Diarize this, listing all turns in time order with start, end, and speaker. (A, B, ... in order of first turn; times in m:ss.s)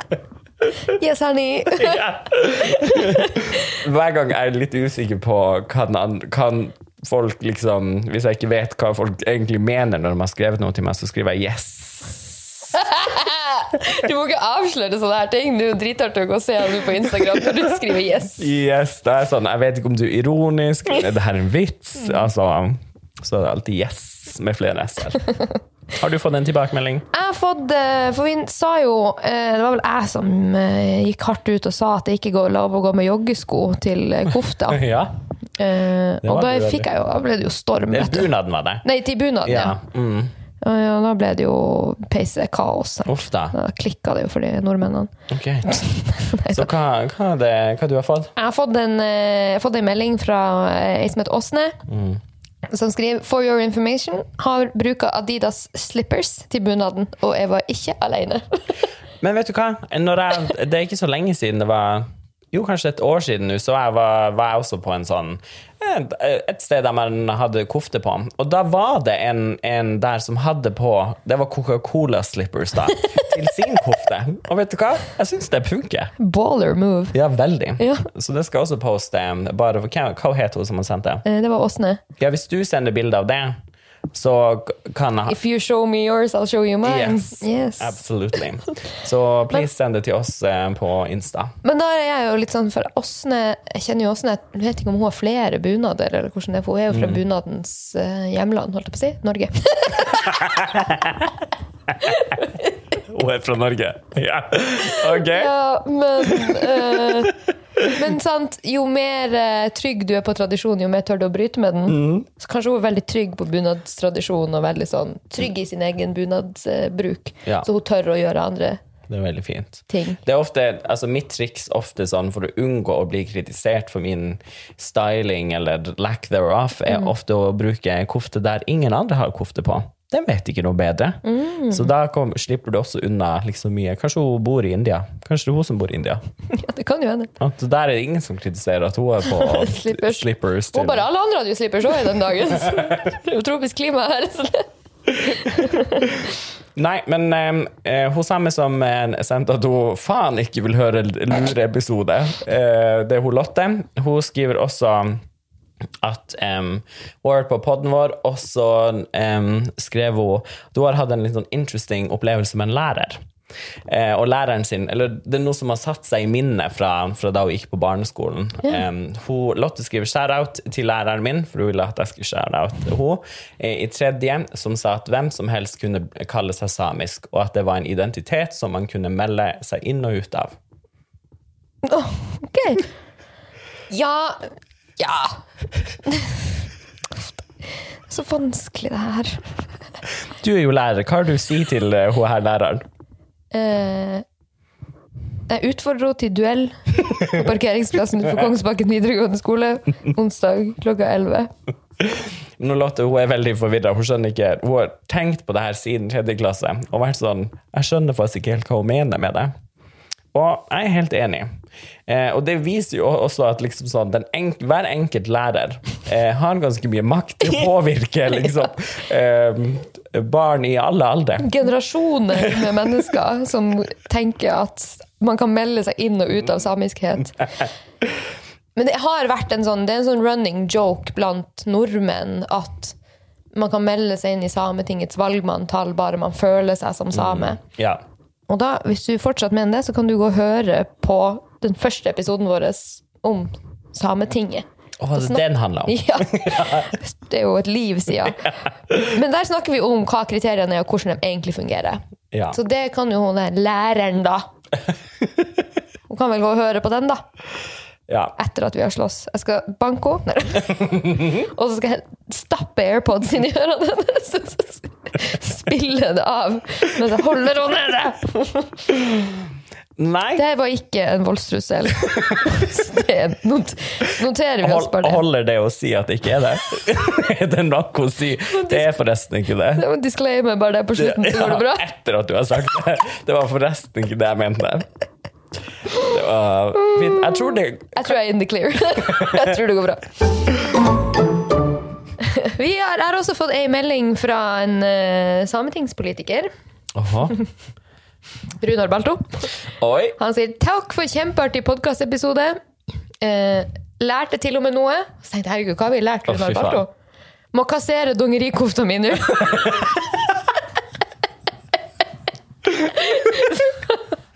0:00.9-0:03.7 A
0:01.8-0:12.7 B
0:12.7-0:18.5 A
0:18.4-0:25.2 B
0:25.9-0:27.0 B
0:27.1-0:34.8 A
0:34.7-0:35.2 B
0:35.6-0:38.3 A
0:36.2-0:36.9 B
0:37.9-0:38.8 B
0:38.8-0:39.8 A
0:39.4-0:40.3 B
0:40.6-0:45.1 A
0:43.0-0:43.5 B
0:45.3-0:45.7 B
0:45.6-0:46.7 A
0:46.5-0:48.3 B
0:48.4-0:51.8 A
0:51.9-0:52.2 B
0:52.7-0:58.7 A
0:59.2-1:16.1 B
1:16.2-1:17.2 A
1:17.1-1:21.2 B
1:17.8-1:18.1 A
1:21.2-1:22.0 A
1:22.2-1:23.5 B
1:24.1-1:25.4 B
1:25.3-1:28.0 A
1:26.8-1:31.6 B
1:31.6-1:40.4 A
1:36.9-1:37.2 B
1:40.2-1:41.3 B
1:42.1-1:42.5 A
1:43.0-1:45.5 B
1:45.0-1:47.3 A
1:46.2-1:48.0 B
1:47.9-1:58.8 A
1:51.9-1:52.2 B
1:59.1-2:16.2 B
1:59.9-2:00.2 A
2:11.2-2:11.9 A
2:16.5-2:17.3 A
2:17.4-2:21.0 B
2:19.2-2:26.1 A
2:26.7-2:35.2 B
2:36.0-2:43.2 B
2:43.9-3:00.6 B
3:01.8-3:02.9 A
3:03.9-3:05.4 A
3:06.0-3:06.6 A
3:07.2-3:09.6 A
3:10.4-3:12.8 B
3:13.5-3:14.2 A
3:15.5-3:21.5 A
3:22.0-3:29.5 B
3:30.3-3:31.5 B
3:32.1-3:41.5 B
3:41.4-3:47.6 A
3:48.8-3:53.0 A
3:53.5-3:57.6 A
3:57.1-3:58.0 B
3:58.5-4:04.6 A
4:05.0-4:06.9 B
4:05.2-4:12.0 A
4:12.5-4:14.5 A
4:16.1-4:17.2 A
4:18.1-4:18.3 B
4:18.4-4:29.0 A
4:30.0-4:30.4 B
4:30.4-4:35.2 A
4:34.6-4:39.8 B
4:38.5-4:38.8 A
4:39.7-4:41.8 A
4:41.0-4:44.9 B
4:45.9-4:48.1 B
4:47.9-4:50.3 A
4:49.1-4:49.5 B
4:52.2-4:56.5 A
4:56.9-4:57.4 B
4:58.6-4:59.5 A
4:59.8-5:00.2 B
5:00.2-5:02.6 A
5:03.2-5:06.9 A
5:06.3-5:06.8 B
5:07.5-5:09.8 A
5:12.6-5:14.0 A